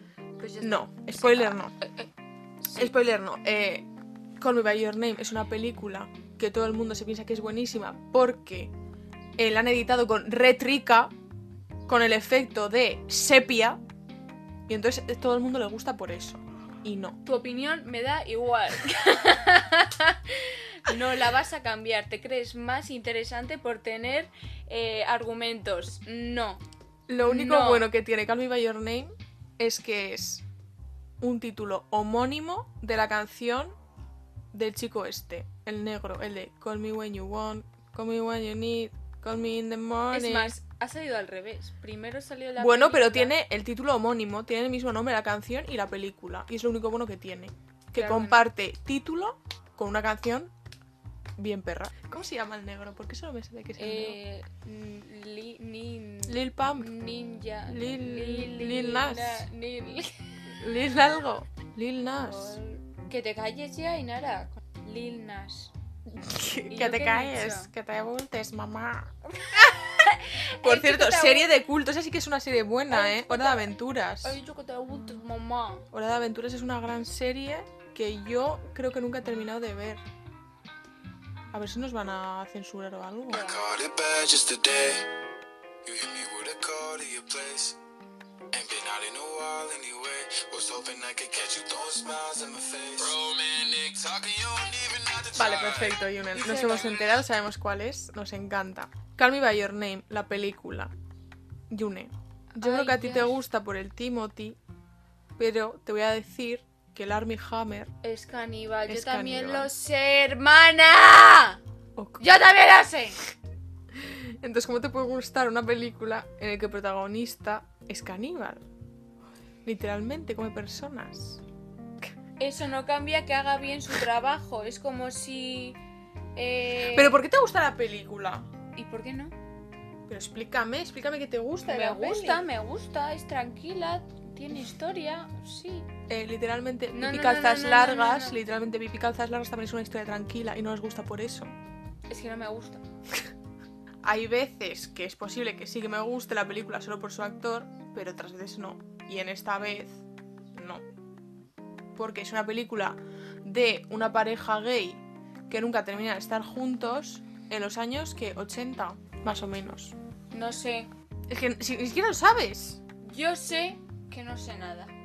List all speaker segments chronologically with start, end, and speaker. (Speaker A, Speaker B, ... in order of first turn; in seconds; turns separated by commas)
Speaker A: 0.4-2.1, Speaker B: 0.6-1.7, Speaker A: 2.6-2.9, Speaker B: 2.8-8.7, Speaker B: 9.4-11.1, Speaker B: 11.9-13.8, Speaker B: 14.7-17.2, Speaker A: 17.2-26.6, Speaker B: 27.1-30.5, Speaker A: 27.2-27.9, Speaker B: 31.2-33.8, Speaker B: 34.5-40.6, Speaker A: 40.1-43.4, Speaker B: 42.6-50.5, Speaker A: 48.0-48.5, Speaker B: 51.4-54.2, Speaker A: 53.8-60.6, Speaker B: 56.3-56.9, Speaker B: 57.7-59.5, Speaker B: 60.6-62.6, Speaker A: 62.2-65.7, Speaker B: 66.1-69.2, Speaker A: 66.7-67.7, Speaker A: 69.4-71.5, Speaker B: 70.6-74.4, Speaker A: 72.9-75.9, Speaker B: 75.9-80.0, Speaker B: 81.5-83.5, Speaker C: 83.3-85.1, Speaker C: 85.8-87.8, Speaker C: 88.5-96.1, Speaker B: 95.3-100.9, Speaker A: 96.3-97.1, Speaker B: 101.7-104.6, Speaker A: 102.5-103.4, Speaker B: 105.4-107.9, Speaker A: 108.0-111.6, Speaker B: 108.9-109.7, Speaker B: 112.0-112.2, Speaker A: 112.2-113.2, Speaker B: 113.9-118.7, Speaker B: 119.7-121.4, Speaker A: 122.4-125.8, Speaker A: 126.3-127.2, Speaker B: 126.9-128.5, Speaker A: 128.8-129.3, Speaker B: 130.1-132.5, Speaker A: 131.6-135.9, Speaker B: 136.1-141.5, Speaker A: 136.9-138.4, Speaker A: 142.1-142.8, Speaker B: 144.0-150.0, Speaker B: 150.5-150.8, Speaker B: 151.9-160.0, Speaker A: 160.3-160.9, Speaker B: 161.3-162.8, Speaker A: 163.0-164.9